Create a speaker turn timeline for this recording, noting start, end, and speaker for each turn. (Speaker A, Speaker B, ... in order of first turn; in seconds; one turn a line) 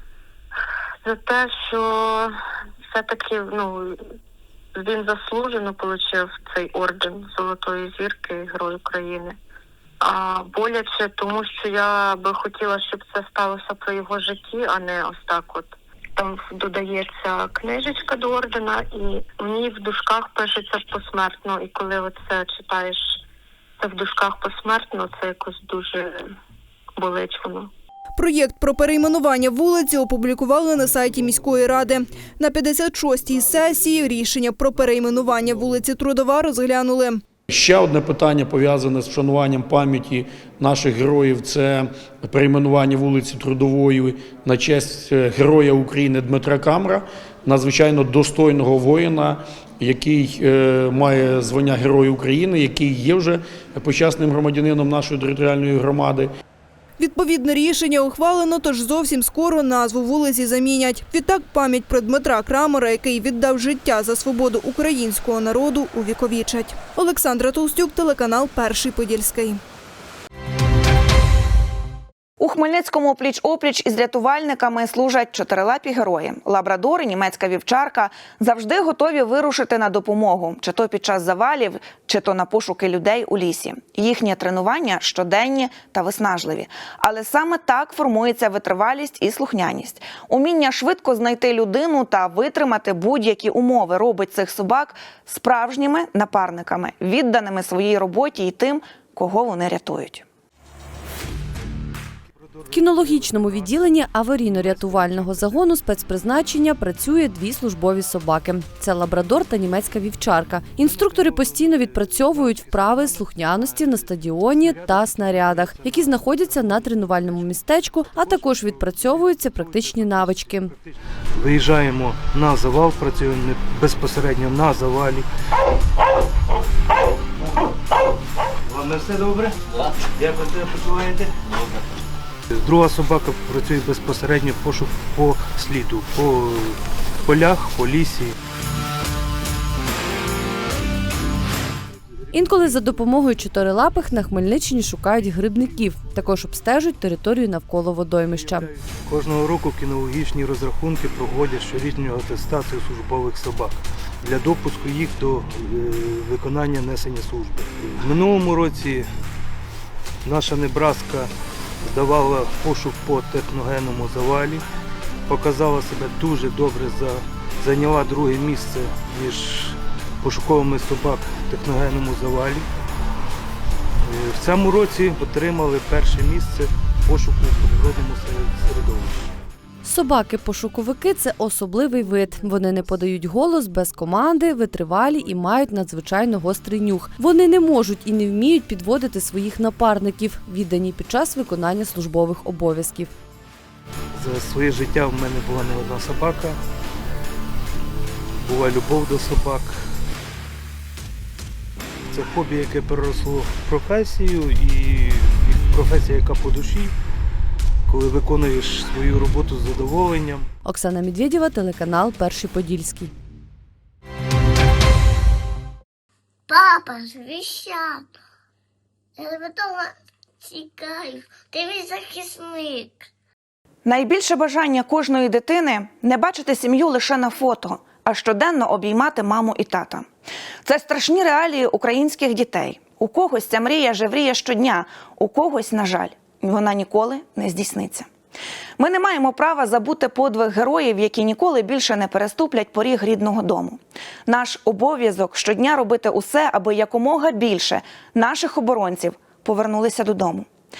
Speaker A: 1.0-2.3
Speaker A: 2.9-4.0
Speaker A: 4.7-9.3
Speaker A: 10.0-23.0
Speaker A: 23.8-26.3
Speaker A: 27.0-27.7
Speaker B: 28.2-37.2
Speaker C: 37.5-56.3
Speaker B: 57.0-69.6
Speaker D: 72.4-100.2
Speaker E: 102.3-105.8
Speaker F: 102.7-120.7
Speaker E: 110.8-125.3
Speaker E: 128.7-131.6
Speaker E: 132.5-138.4
Speaker F: 142.3-148.7
Speaker E: 148.3-159.1
Speaker E: 160.2-161.3
Speaker E: 161.8-164.6
Speaker E: 165.3-172.7
Speaker E: 174.0-179.3
Speaker F: 179.8-193.1
Speaker E: 194.1-196.6
Speaker E: 198.4-199.8
Speaker E: 202.1-206.9
Speaker E: 207.8-210.5
Speaker F: 210.6-213.1
Speaker G: 216.5-218.1
Speaker G: 219.2-223.1
Speaker D: 223.8-230.1
Speaker D: 230.7-238.1
Speaker D: 238.8-250.4